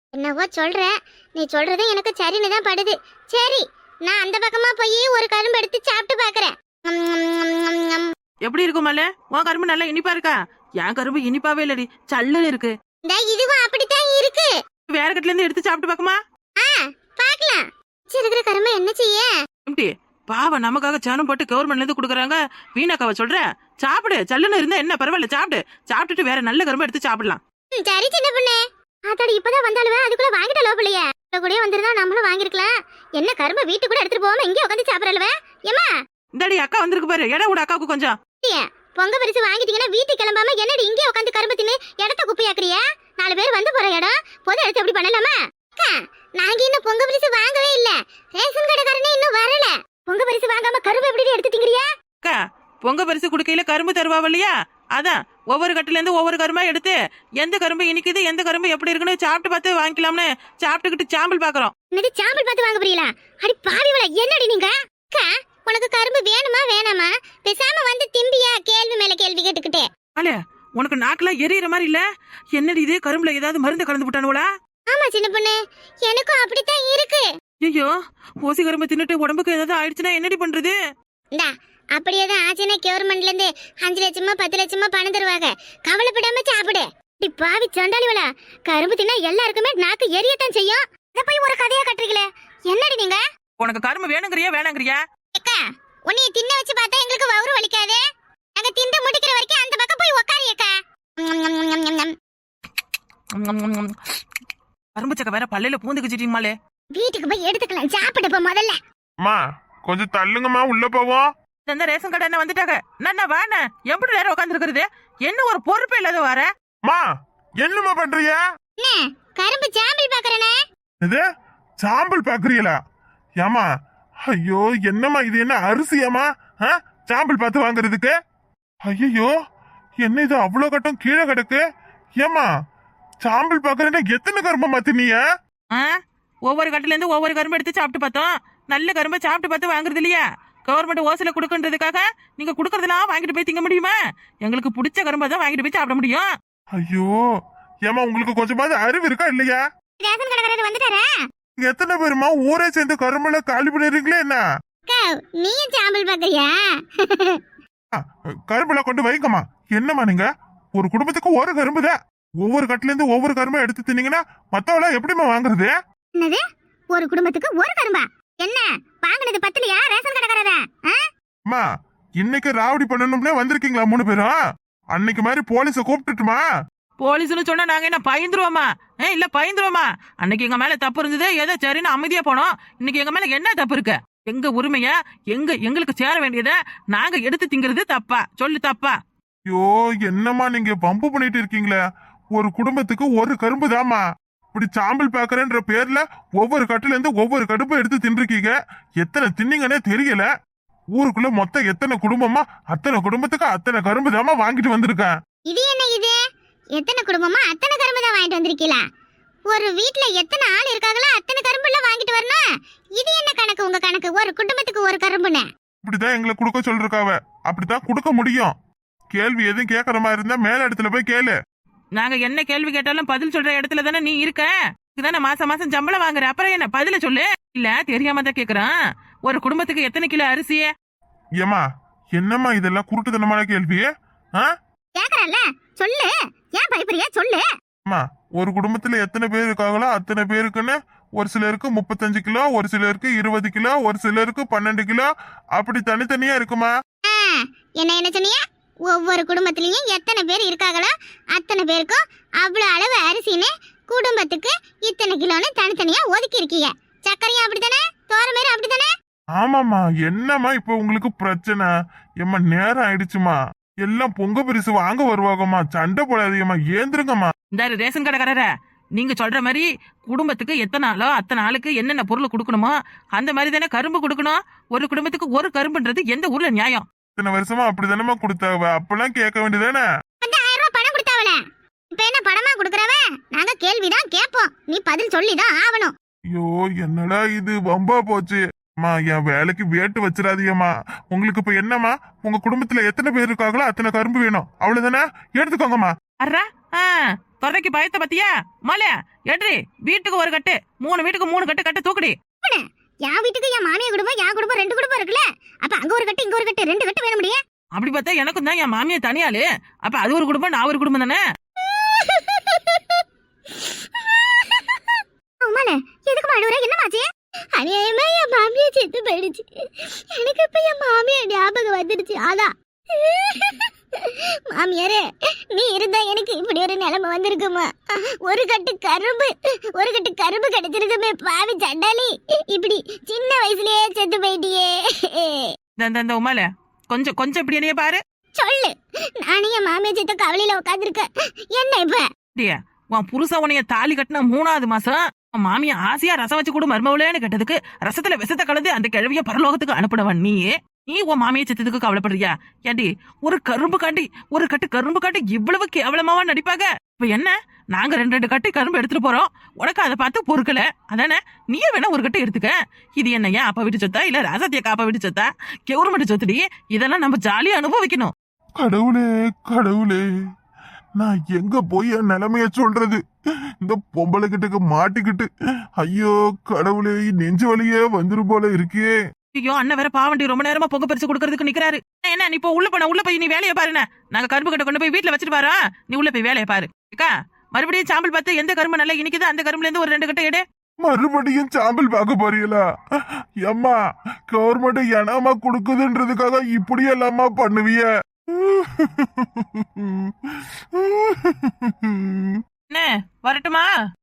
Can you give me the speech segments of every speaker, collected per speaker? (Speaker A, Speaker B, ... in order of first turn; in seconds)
Speaker A: 0.1-8.1, 13.0-14.5, 16.6-19.3, 27.7-35.9, 38.4-51.9, 61.9-69.8, 74.9-77.2, 81.3-93.2, 95.3-98.0, 98.6-102.1, 106.9-108.8, 118.8-120.5, 150.0-151.1, 154.8-157.4, 166.9-171.0, 205.5-206.2, 206.8-208.8, 209.5-212.4, 213.0-215.4, 234.9-237.4, 247.0-258.9, 280.2-281.4, 281.9-285.9, 302.4-307.4, 311.6-313.0, 313.6-317.0, 317.6-327.7, 328.2-335.5, 338.4-342.1
Speaker B: 8.4-12.7, 14.9-16.2, 19.6-27.4, 36.4-38.1, 52.2-61.7, 70.2-72.0, 72.5-74.5, 77.6-77.9, 78.4-80.8, 93.6-95.0, 103.3-103.9, 104.9-106.5, 111.7-116.5, 136.4-146.3, 177.0-189.0, 222.0-228.7, 229.3-230.7, 267.5-276.8, 296.2-302.1, 307.7-311.2, 335.8-338.0, 342.3-368.1, 379.3-390.4, 402.7-403.7
Speaker C: 109.2-111.3, 117.6-118.4, 121.8-122.8, 123.4-123.7, 124.3-128.1, 128.8-129.3, 130.0-131.6, 132.2-132.4, 133.2-135.2, 146.8-147.1, 147.8-149.6, 151.6-154.4, 157.9-165.7, 172.2-174.3, 174.9-176.4, 189.5-191.8, 192.3-194.0, 194.5-200.3, 201.0-205.1, 215.8-218.5, 219.1-221.3, 232.2-234.5, 237.8-246.7, 259.4-261.7, 262.2-267.3, 277.2-279.8, 286.3-295.9, 368.6-370.0, 371.0-373.0, 373.6-375.3, 375.8-378.9, 390.8-392.6, 393.4-393.8, 394.3-402.4